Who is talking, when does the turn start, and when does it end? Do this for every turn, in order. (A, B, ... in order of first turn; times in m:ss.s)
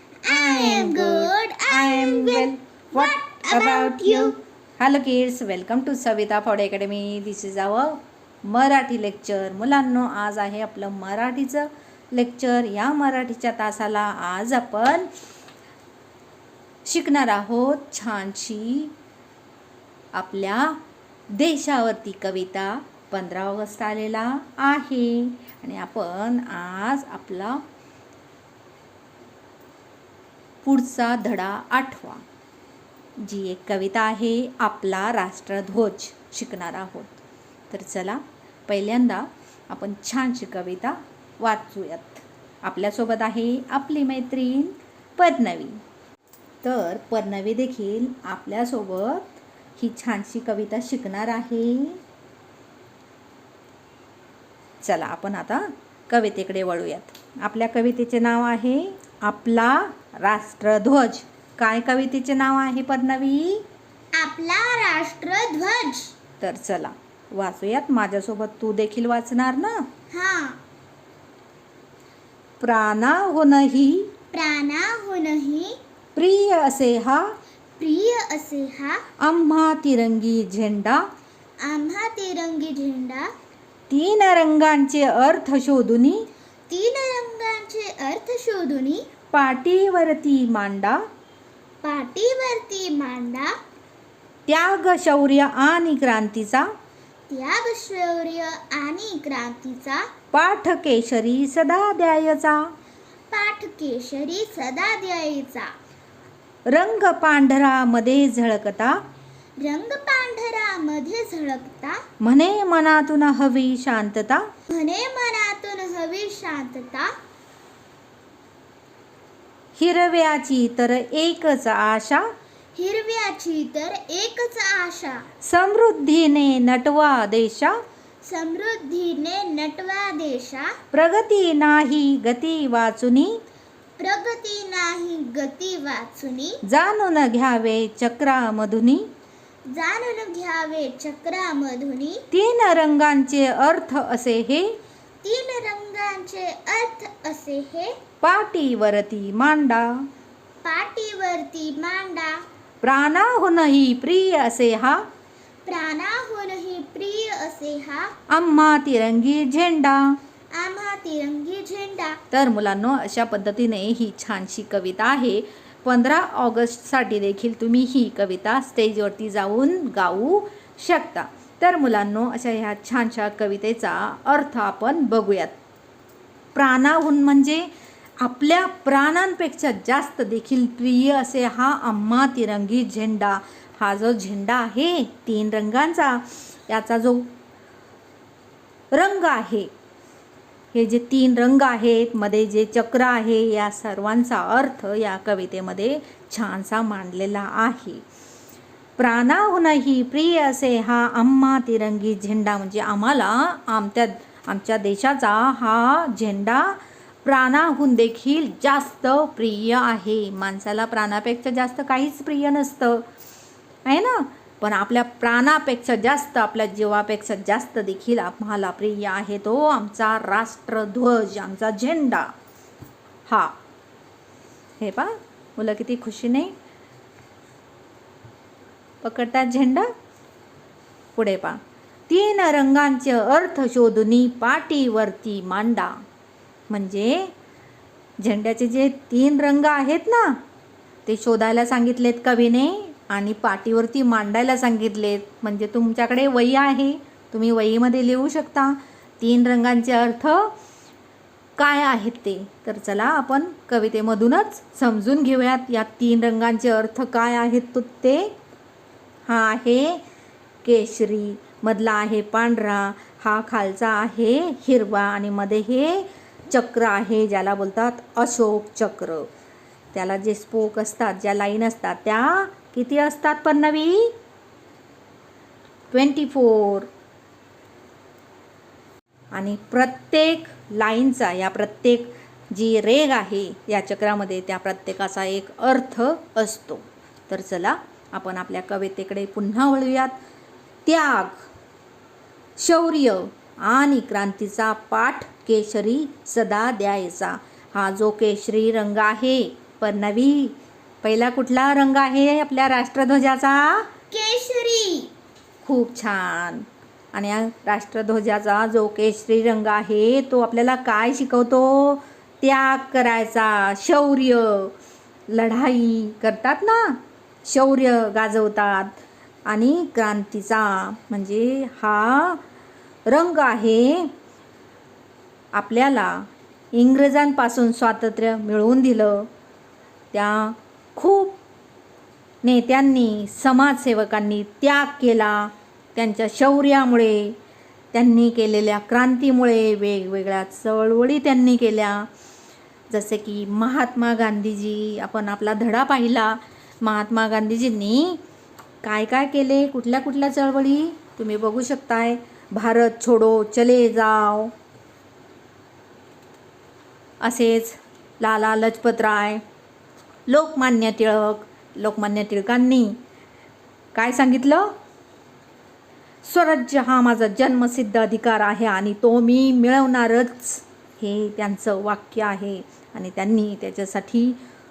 0:00.2-0:04.4 A
0:00.3-0:15.1 B
0:16.8-0:18.9 B
0:20.1-0:20.8 B
0:21.3-0:27.6 B
0:30.6-0:32.2 B
0:33.2-0:37.1 B
0:37.7-0:45.8 B
0:46.6-0:52.0 B
0:54.8-1:03.6 B
1:04.1-1:06.1 A
1:06.4-1:09.8 B
1:10.1-1:10.6 A
1:12.6-1:14.1 B
1:14.3-1:15.8 A
1:16.2-1:17.2 B
1:17.8-1:19.0 A
1:19.2-1:21.0 B
1:21.6-1:23.3 A
1:23.9-1:26.3 B
1:26.7-1:29.1 A
1:29.3-1:31.0 B
1:31.8-1:33.5 A
1:34.5-1:36.7 B
1:37.3-1:40.0 A
1:40.3-1:42.6 B
1:43.3-1:45.7 A
1:46.7-1:49.0 B
1:49.6-1:52.0 A
1:52.2-1:54.5 B
1:54.7-1:57.1 A
1:59.8-2:02.2 B
2:02.7-2:05.2 A
2:05.4-2:07.8 B
2:08.2-2:10.7 A
2:10.9-2:13.4 B
2:14.0-2:16.6 A
2:16.6-2:19.1 B
2:19.7-2:22.2 A
2:22.3-2:24.7 B
2:25.2-2:27.9 A
2:28.2-2:30.0 B
2:30.6-2:32.4 A
2:32.8-2:35.0 B
2:35.6-2:38.1 A
2:38.3-2:40.2 B
2:40.5-2:42.2 A
2:42.3-2:55.5 B
2:56.5-2:57.7 B
2:58.2-3:07.3 B
3:08.9-3:09.7 B
3:10.7-3:18.0 B
3:19.0-3:33.0 B
3:33.8-3:42.3 B
3:43.2-3:43.5 B
3:44.8-3:46.5 B
3:49.0-3:49.9 B
3:51.2-3:55.9 B
3:56.7-3:57.3 B
3:58.2-4:00.4 B
4:01.0-4:10.5 B
4:11.6-4:18.3 B
4:19.3-4:20.0 B
4:20.6-4:29.3 B
4:29.9-4:34.1 B
4:35.9-4:36.9 B
4:39.3-4:50.1 B
4:50.8-4:51.5 B
4:52.6-5:03.9 B
5:04.1-5:05.1 A
5:05.6-5:14.7 B
5:15.3-5:22.4 B
5:23.1-5:24.1 B
5:25.5-5:29.3 B
5:30.1-5:31.4 B
5:32.4-5:37.4 B
5:37.9-5:42.1 B
5:42.9-5:48.2 B
5:48.8-5:54.5 B
5:57.2-5:59.4 B
6:00.3-6:03.0 B
6:03.9-6:04.7 B
6:06.2-6:14.4 B